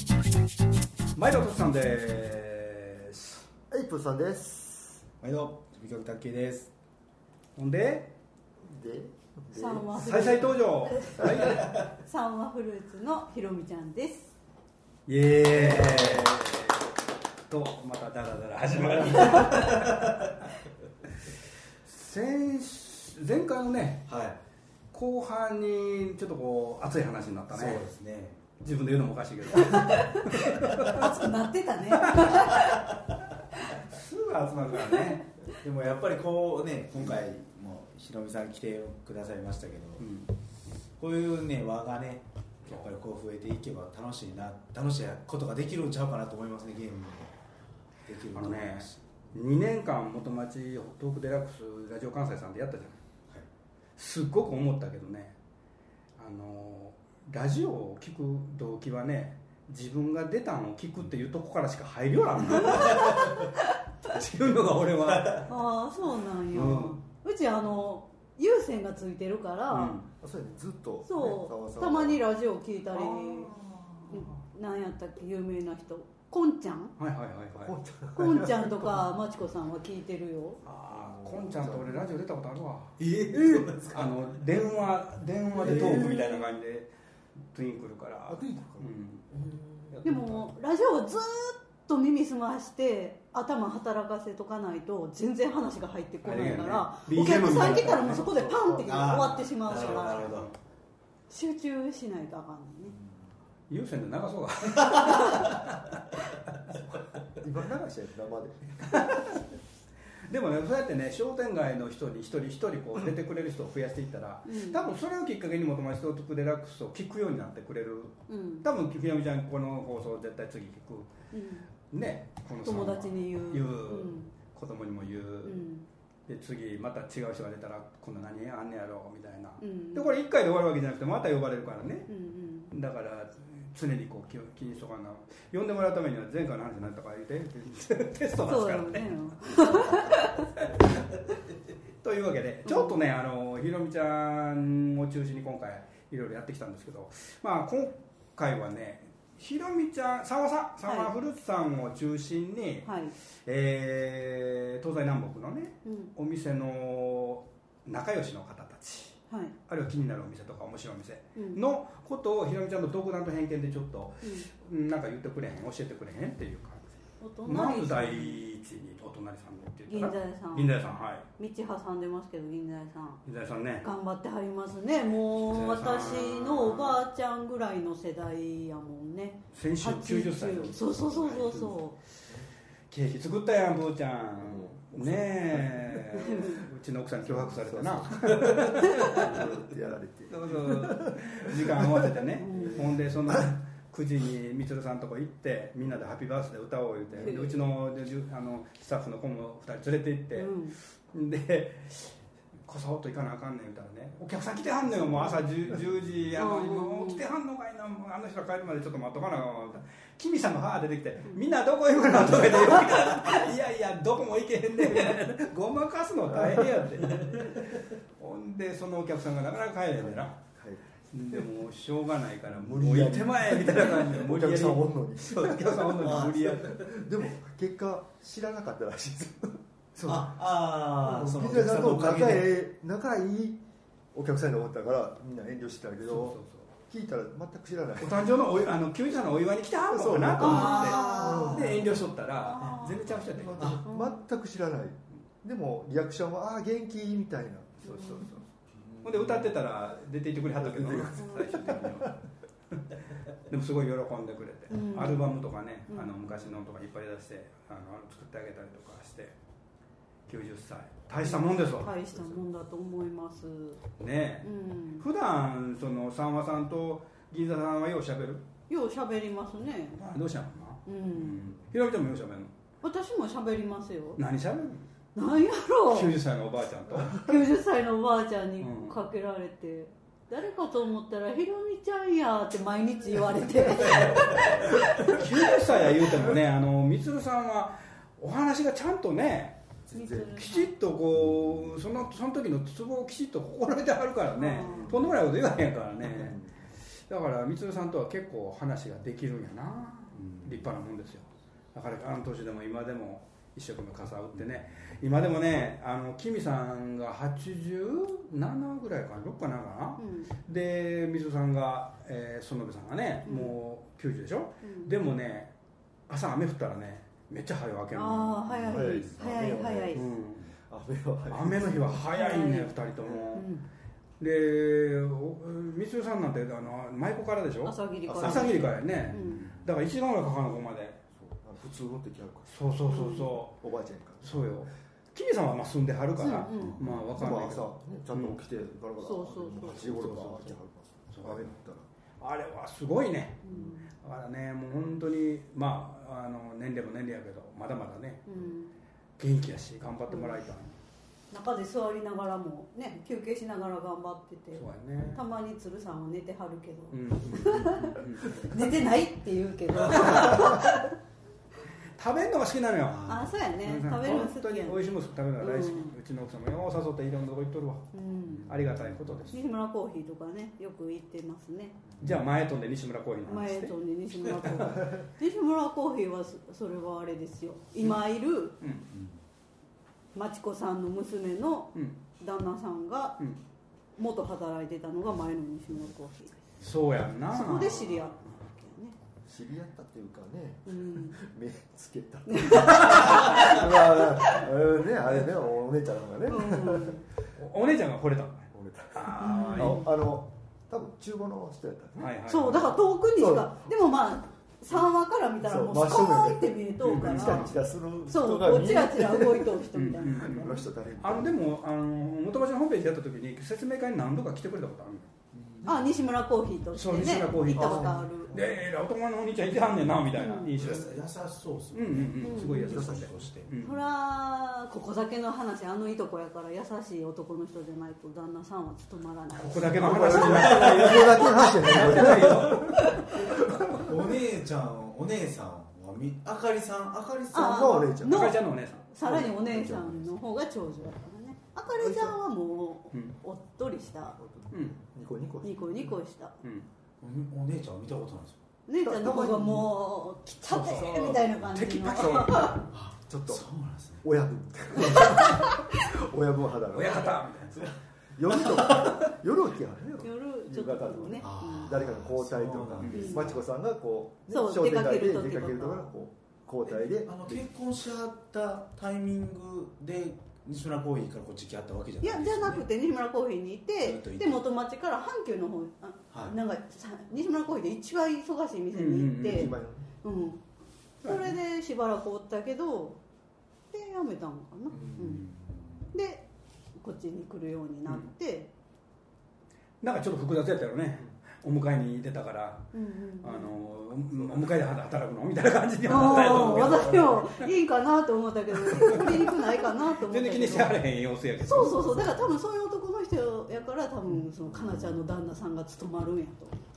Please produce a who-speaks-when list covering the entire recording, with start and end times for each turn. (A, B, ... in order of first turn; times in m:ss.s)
0:01.2-0:03.5 A
0:03.7-0:05.0 B
0:05.2-0:06.7 C
0:07.6-0:08.1 A
0:08.6-0:09.9 B
0:09.5-0:14.4 D
0:09.9-0:11.7 A
0:15.1-0:16.6 A
0:15.5-0:16.4 C
0:17.5-0:20.1 A
0:18.7-0:20.3 C
0:21.8-0:24.1 A
0:24.1-0:24.4 C
0:24.9-0:27.8 A
0:27.5-0:28.4 C
0:28.6-0:31.1 A
0:29.5-0:32.8 D
0:32.1-0:32.7 A
0:33.8-0:35.2 A
0:34.7-0:35.2 D
0:35.6-0:40.1 C
0:40.0-0:40.3 A
0:41.0-0:47.3 C
0:48.1-0:49.0 C
0:48.3-0:53.0 A
0:54.0-0:55.3 A
0:56.2-1:03.5 A
1:02.6-1:03.5 D
1:02.8-1:03.3 C
1:04.0-1:05.5 A
1:05.0-1:05.4 C
1:05.4-1:10.0 D
1:06.5-1:07.0 A
1:09.7-1:10.1 A
1:10.2-1:12.2 B
1:11.0-1:13.5 D
1:12.9-1:14.4 A
1:14.1-1:16.9 D
1:17.0-1:17.8 A
1:17.6-1:19.0 B
1:18.1-1:20.6 D
1:20.6-1:23.0 A
1:20.9-1:22.0 B
1:23.0-1:24.2 C
1:23.9-1:26.9 A
1:25.6-1:26.1 C
1:25.7-1:26.4 D
1:27.5-1:29.2 A
1:28.3-1:30.0 B
1:29.9-1:30.5 A
1:30.0-1:40.2 D
1:36.2-1:38.3 A
1:37.5-1:39.2 B
1:38.8-1:40.5 C
1:39.7-1:40.6 A
1:41.3-1:43.0 D
1:43.7-1:46.1 A
1:45.0-1:45.4 D
1:47.4-1:49.4 B
1:48.9-1:49.3 A
1:50.3-2:01.1 A
1:54.4-1:54.9 D
1:58.3-1:58.7 D
2:01.3-2:01.7 D
2:01.9-2:05.6 A
2:02.6-2:04.3 D
2:05.4-2:05.9 D
2:06.3-2:12.1 A
2:09.6-2:10.1 D
2:12.1-2:12.7 D
2:12.7-2:20.6 A
2:18.5-2:20.4 D
2:22.0-2:51.2 A
2:22.7-2:23.0 D
2:30.8-2:31.1 D
2:32.8-2:33.1 D
2:35.8-2:36.1 D
2:41.3-2:41.6 D
2:44.2-2:44.5 D
2:47.2-2:48.4 D
2:49.9-2:50.8 D
2:51.4-2:53.2 D
2:53.2-2:53.9 A
2:53.8-3:01.9 D
2:55.5-2:57.0 A
2:59.5-3:01.8 A
3:02.9-3:09.6 A
3:04.4-3:06.5 B
3:06.2-3:06.6 D
3:07.2-3:13.5 B
3:10.3-3:40.4 A
3:12.4-3:12.8 D
3:17.2-3:17.6 D
3:20.3-3:20.8 D
3:26.4-3:27.2 D
3:37.2-3:37.5 C
3:40.1-3:40.8 B
3:41.1-3:47.0 A
3:42.5-3:53.6 B
3:46.0-3:46.8 C
3:50.0-3:52.5 C
3:54.1-3:58.3 B
3:56.0-3:56.7 A
3:58.0-4:03.8 A
3:59.9-4:01.8 B
4:00.4-4:01.6 D
4:00.4-4:02.0 C
4:02.4-4:03.0 D
4:02.8-4:08.4 B
4:03.6-4:03.8 C
4:03.9-4:04.2 D
4:07.9-4:08.2 D
4:07.9-4:08.4 A
4:08.8-4:09.5 C
4:09.0-4:12.2 A
4:10.6-4:12.1 B
4:11.2-4:11.7 D
4:13.3-4:19.4 A
4:14.7-4:15.4 D
4:20.3-4:22.3 A
4:21.2-4:23.8 D
4:24.0-4:24.5 A
4:24.4-4:25.1 D
4:25.0-4:28.5 A
4:28.7-4:30.0 D
4:30.0-4:32.5 A
4:30.9-4:31.4 D
4:32.8-4:34.2 D
4:34.2-4:34.9 A
4:35.2-4:36.2 D
4:35.9-4:37.3 A
4:37.1-4:45.2 D
4:38.6-4:39.0 A
4:43.8-4:44.5 C
4:44.3-4:49.6 A
4:49.9-4:50.3 B
4:49.9-4:50.7 D
4:50.4-4:56.4 A
4:54.4-4:55.0 D
4:54.6-4:55.1 B
4:56.0-4:56.7 B
4:57.1-5:15.5 A
5:00.2-5:00.6 C
5:10.0-5:10.3 D
5:13.2-5:13.6 D
5:14.6-5:14.9 D
5:16.1-5:19.0 A
5:17.9-5:20.0 D
5:18.5-5:20.1 B
5:19.9-5:20.5 A
5:20.7-5:22.1 B
5:21.3-5:23.5 A
5:22.1-5:22.8 D
5:23.3-5:23.7 D
5:24.2-5:31.0 A
5:27.6-5:29.5 D
5:29.1-5:29.7 C
5:31.2-5:32.5 B
5:32.5-5:33.6 A
5:32.9-5:33.4 D
5:33.6-5:34.4 B
5:34.2-5:38.4 A
5:36.2-5:36.8 D
5:36.6-5:37.1 C
5:37.1-5:41.9 B
5:39.0-5:39.8 D
5:39.8-5:40.5 A
5:41.1-5:41.5 A
5:42.2-5:48.3 A
5:43.4-5:43.9 D
5:48.3-5:48.8 D
5:49.2-5:50.8 A
5:50.1-5:50.4 D
5:51.3-6:00.9 D
5:54.6-5:55.2 A
5:56.9-5:58.6 A
5:59.8-6:00.9 A
6:02.0-6:07.9 A
6:03.1-6:05.9 D
6:07.9-6:08.5 D
6:08.3-6:09.3 C
6:08.4-6:09.4 A
6:09.3-6:11.8 D
6:11.9-6:12.2 C
6:12.0-6:14.9 A
6:13.3-6:18.6 D
6:18.6-6:18.9 A
6:18.9-6:19.2 C
6:20.2-6:23.2 D
6:24.0-6:26.4 D
6:26.6-6:28.1 A
6:27.3-6:29.0 D
6:29.3-6:37.0 B
6:30.7-6:31.2 D
6:32.3-6:34.4 D
6:36.3-6:37.0 D
6:37.4-6:39.9 A
6:38.5-6:43.7 B
6:39.2-6:39.9 D
6:42.0-6:42.7 A
6:42.3-6:47.5 D
6:45.4-6:51.4 B
6:46.8-6:47.6 A
6:48.1-6:50.7 D
6:49.7-6:55.1 A
6:55.3-6:55.8 C
6:55.6-6:58.4 D
6:56.7-7:01.0 A
6:57.5-6:58.6 B
7:00.2-7:00.9 D
7:00.5-7:03.5 C
7:01.7-7:03.8 A
7:02.2-7:02.9 D
7:02.5-7:03.3 B
7:03.6-7:11.6 D
7:09.4-7:13.6 A
7:09.6-7:13.9 B
7:10.5-7:10.9 C
7:12.7-7:13.2 D
7:13.7-7:17.7 C
7:17.3-7:18.3 B
7:17.3-7:24.2 D
7:18.0-7:18.8 A
7:19.0-7:20.1 B
7:21.7-7:22.2 B
7:24.2-7:26.0 B
7:24.5-7:24.8 A
7:25.4-7:26.4 D
7:26.4-7:26.7 A
7:27.0-7:28.4 C
7:28.7-7:32.6 D
7:28.8-7:29.7 B
7:30.4-7:32.6 A
7:32.0-7:33.4 B
7:32.7-7:34.0 C
7:34.0-7:47.5 B
7:34.9-7:35.7 D
7:36.7-7:37.7 A
7:40.0-7:41.8 D
7:41.2-7:43.4 C
7:42.8-7:43.2 A
7:43.0-7:43.3 D
7:44.3-7:45.9 D
7:46.7-7:52.7 C
7:52.0-8:00.4 D
7:53.8-7:54.4 C
7:58.7-7:59.6 A
7:59.2-7:59.9 B
8:01.0-8:01.4 A
8:01.0-8:03.0 D
8:03.7-8:05.3 D
8:04.7-8:05.8 C
8:05.9-8:06.2 D
8:06.8-8:08.5 D
8:09.8-8:17.5 A
8:12.7-8:13.5 D
8:15.9-8:20.8 D
8:16.2-8:17.2 B
8:18.6-8:22.3 A
8:21.4-8:26.6 D